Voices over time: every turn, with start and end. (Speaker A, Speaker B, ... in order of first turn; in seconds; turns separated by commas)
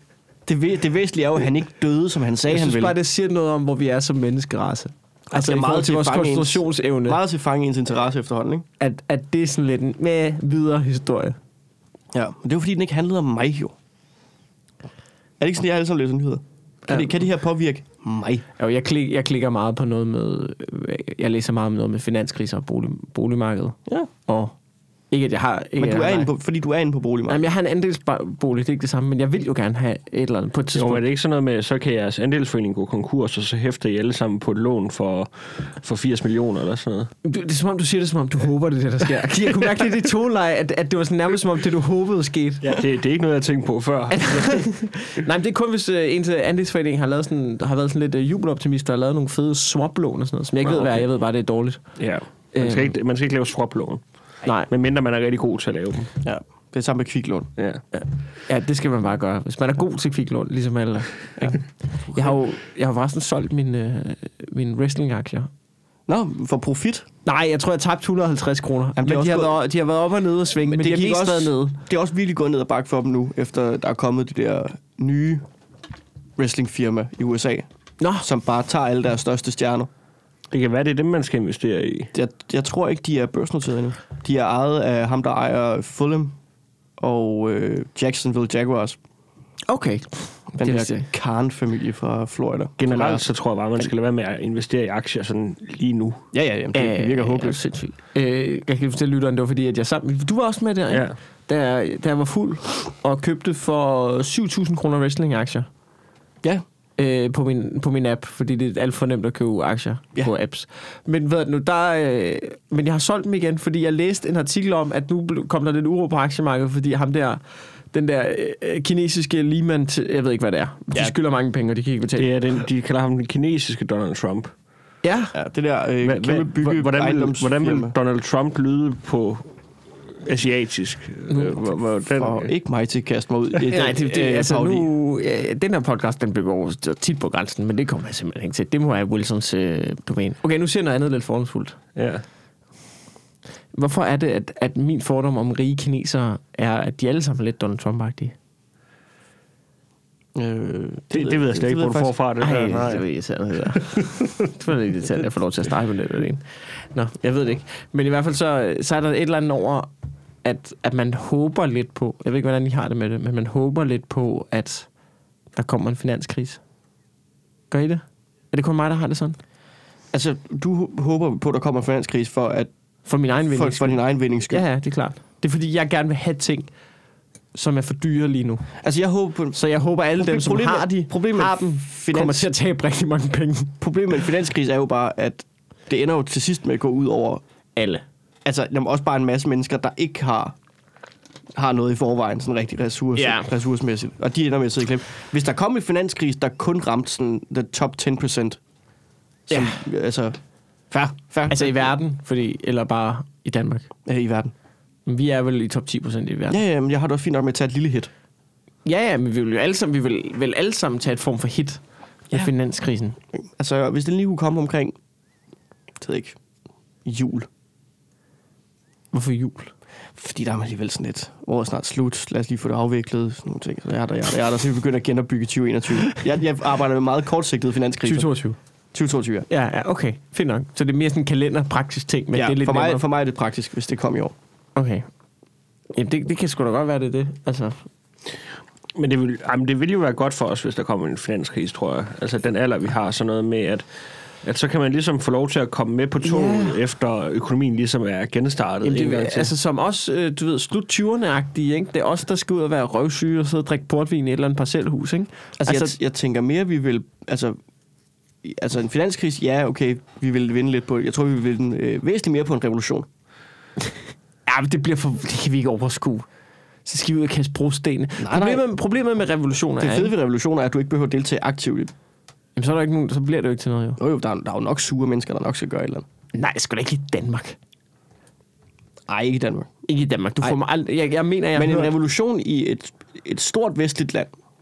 Speaker A: 0.5-2.9, Speaker B: 2.5-7.2, Speaker A: 5.3-8.7, Speaker B: 8.8-11.4, Speaker A: 12.1-13.8, Speaker A: 15.4-18.4, Speaker B: 18.6-24.5, Speaker B: 25.1-26.3, Speaker A: 25.8-27.5, Speaker B: 27.3-31.0, Speaker C: 30.7-37.1, Speaker B: 37.2-42.8, Speaker C: 42.6-44.7, Speaker B: 44.1-51.8, Speaker C: 50.6-51.1, Speaker C: 52.0-54.0, Speaker B: 52.5-52.9, Speaker B: 54.4-54.7, Speaker C: 54.7-56.1, Speaker A: 56.2-57.5, Speaker C: 57.6-57.8, Speaker B: 58.0-65.5, Speaker A: 61.4-62.3, Speaker A: 66.1-67.1, Speaker B: 67.2-71.8, Speaker A: 69.0-69.6, Speaker A: 70.6-75.5, Speaker A: 76.4-77.7, Speaker B: 78.0-78.2, Speaker A: 78.2-79.9, Speaker C: 80.5-82.1, Speaker A: 82.1-86.3, Speaker A: 87.0-89.0, Speaker B: 89.7-91.1, Speaker A: 90.6-93.3, Speaker C: 92.8-96.2, Speaker A: 96.3-97.6, Speaker B: 96.7-105.7, Speaker C: 100.9-101.2, Speaker B: 107.0-117.4, Speaker B: 117.9-122.3, Speaker C: 122.2-124.5, Speaker B: 125.0-125.3, Speaker A: 125.3-127.9, Speaker C: 126.0-129.5, Speaker C: 130.2-132.5, Speaker A: 132.1-134.9, Speaker B: 133.7-141.8, Speaker C: 142.0-142.2, Speaker B: 143.7-148.3, Speaker A: 150.4-152.1, Speaker C: 151.1-153.1, Speaker B: 152.4-159.9, Speaker C: 153.8-154.3, Speaker B: 160.4-164.9, Speaker B: 165.6-166.6, Speaker B: 167.7-169.4, Speaker A: 170.1-172.7, Speaker B: 173.1-176.7, Speaker A: 173.5-174.6, Speaker B: 177.5-178.7, Speaker A: 178.8-179.6, Speaker B: 179.5-183.8, Speaker A: 180.2-182.5, Speaker A: 183.8-187.4, Speaker B: 187.8-188.0, Speaker A: 188.4-190.6, Speaker A: 191.6-198.6, Speaker B: 193.2-193.5, Speaker A: 199.5-200.4, Speaker B: 199.5-199.8, Speaker A: 200.9-201.8, Speaker B: 201.5-203.9, Speaker A: 204.1-204.5, Speaker B: 205.1-206.6, Speaker A: 206.5-208.1, Speaker B: 208.8-211.8, Speaker B: 212.3-213.2, Speaker A: 213.4-214.9, Speaker A: 216.0-216.4, Speaker A: 217.1-217.5, Speaker B: 219.1-219.7, Speaker A: 220.2-228.3, Speaker B: 228.0-228.6, Speaker A: 228.9-229.5, Speaker B: 229.5-233.0, Speaker A: 232.3-234.3, Speaker B: 234.8-235.1, Speaker B: 235.9-237.8, Speaker C: 238.9-243.9, Speaker C: 244.4-249.5, Speaker B: 246.2-246.8, Speaker B: 248.8-255.9, Speaker A: 255.6-257.6, Speaker A: 258.4-263.1, Speaker B: 264.5-266.3, Speaker B: 266.9-270.1, Speaker A: 268.2-268.6, Speaker A: 269.8-271.9, Speaker B: 272.6-274.0, Speaker A: 274.0-276.1, Speaker B: 276.3-277.6, Speaker A: 279.1-279.7, Speaker B: 279.9-281.9, Speaker A: 281.6-284.3